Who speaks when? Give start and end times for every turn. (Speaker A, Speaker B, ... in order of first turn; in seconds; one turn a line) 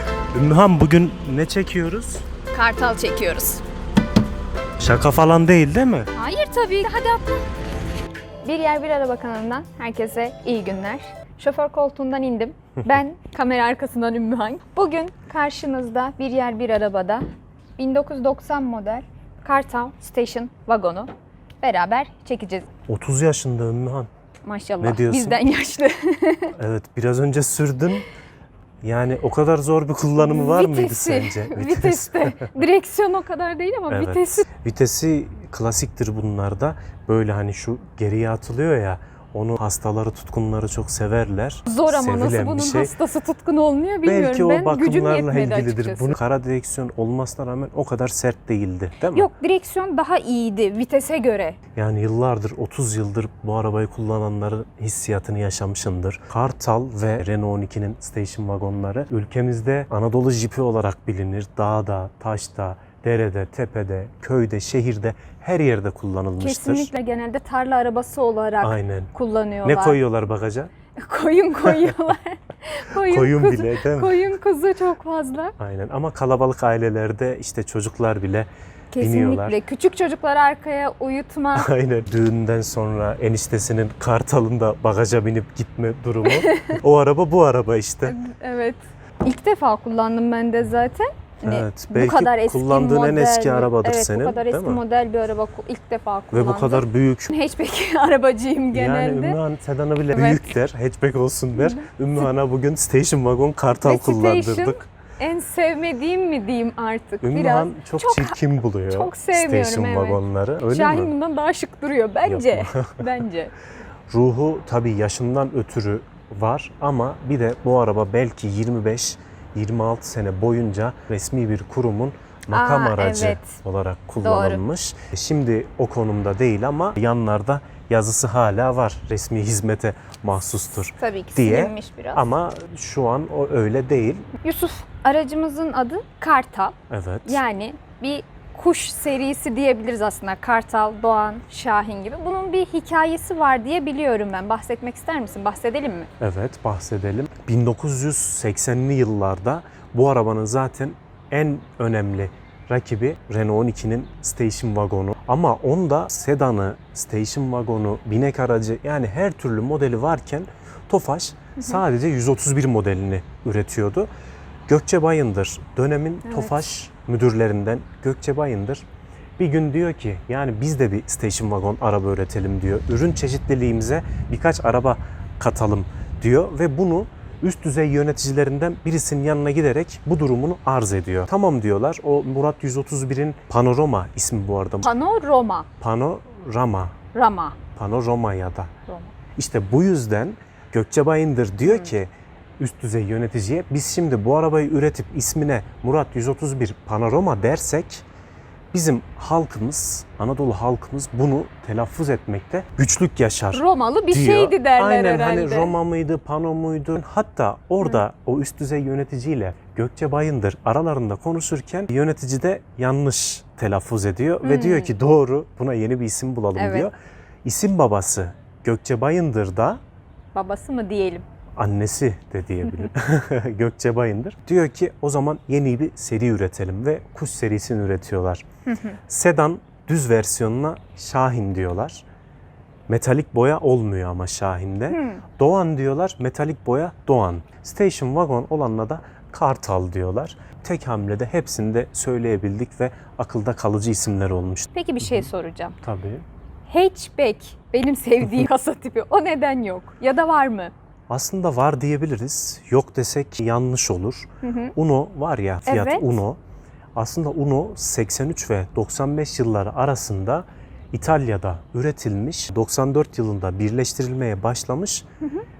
Speaker A: 0.3-2.2
Speaker B: 2.5-3.6
Speaker A: 4.8-6.1
Speaker B: 6.1-7.5
Speaker B: 8.4-17.2
Speaker B: 17.8-22.7
Speaker A: 22.9-24.1
Speaker B: 24.4-26.5
Speaker A: 24.8-25.4
Speaker A: 26.5-28.1
Speaker A: 28.8-32.5
Speaker B: 30.2-34.4
Speaker A: 33.9-42.9
Speaker B: 41.7-46.2
Speaker A: 44.0-49.3
Speaker B: 49.1-51.6
Speaker A: 51.7-66.9
Speaker B: 66.4-70.0
Speaker A: 68.6-69.1
Speaker A: 69.6-70.7
Speaker B: 70.9-75.5
Speaker A: 73.0-74.2
Speaker A: 75.6-79.6
Speaker B: 78.9-81.7
Speaker A: 81.5-88.2
Speaker B: 86.2-86.8
Speaker B: 88.0-99.4
Speaker A: 91.4-94.8
Speaker A: 96.3-97.3
Speaker A: 98.7-104.9
Speaker B: 100.1-100.5
Speaker B: 101.5-101.8
Speaker B: 103.8-113.5
Speaker A: 107.2-111.1
Speaker A: 112.2-113.1
Speaker A: 114.1-134.3
Speaker B: 122.5-123.6
Speaker B: 124.2-124.6
Speaker B: 130.9-132.2
Speaker B: 134.4-146.1
Speaker A: 136.9-137.4
Speaker A: 146.2-164.1
Speaker B: 161.6-161.8
Speaker A: 164.7-168.8
Speaker B: 166.2-166.7
Speaker A: 169.4-184.9
Speaker B: 184.8-185.7
Speaker A: 185.8-186.9
Speaker B: 187.1-187.6
Speaker A: 187.7-188.7
Speaker B: 188.9-189.1
Speaker A: 189.3-198.0
Speaker B: 191.6-191.9
Speaker A: 198.7-219.8
Speaker B: 203.5-205.7
Speaker B: 214.4-214.9
Speaker B: 216.6-216.9
Speaker B: 220.3-221.2
Speaker A: 221.6-228.4
Speaker B: 228.7-229.0
Speaker A: 229.1-232.0
Speaker A: 232.9-245.3
Speaker B: 234.9-235.2
Speaker B: 244.7-245.8
Speaker A: 245.8-246.2
Speaker B: 246.7-250.7
Speaker A: 251.1-256.4
Speaker B: 254.4-254.7
Speaker B: 255.7-256.1
Speaker A: 256.9-265.1